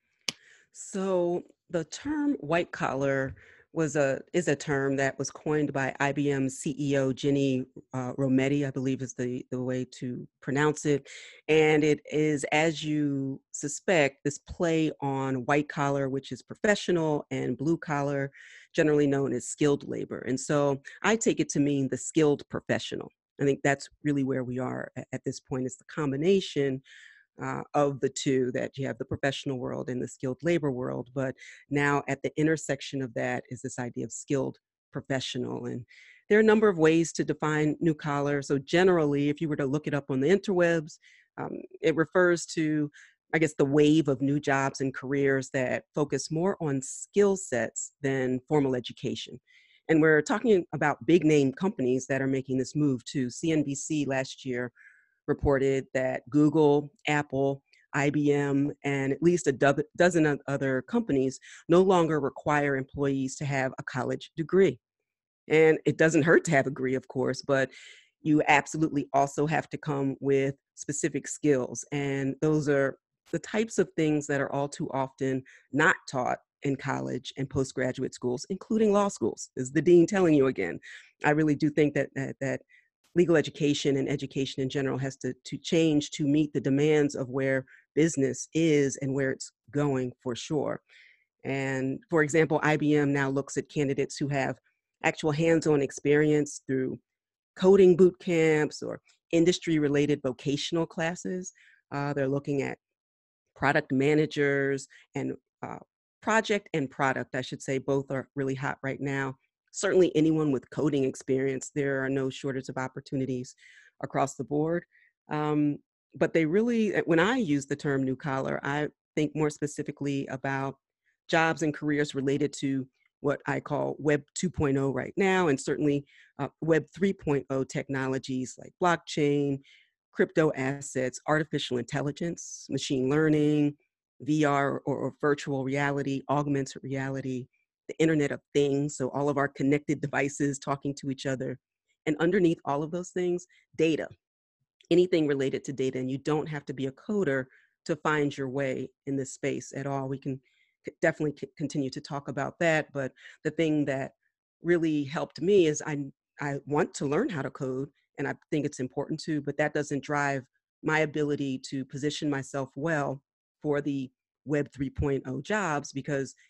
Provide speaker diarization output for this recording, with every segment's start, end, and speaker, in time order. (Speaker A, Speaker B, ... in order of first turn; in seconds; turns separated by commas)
Speaker A: 0.7-26.8, Speaker A: 27.4-54.7, Speaker A: 55.3-64.8, Speaker A: 65.5-67.7, Speaker A: 68.2-82.6, Speaker A: 83.2-90.8, Speaker A: 91.4-97.0, Speaker A: 97.6-102.8, Speaker A: 103.5-120.8, Speaker A: 121.3-129.6, Speaker A: 130.1-144.1, Speaker A: 144.9-166.3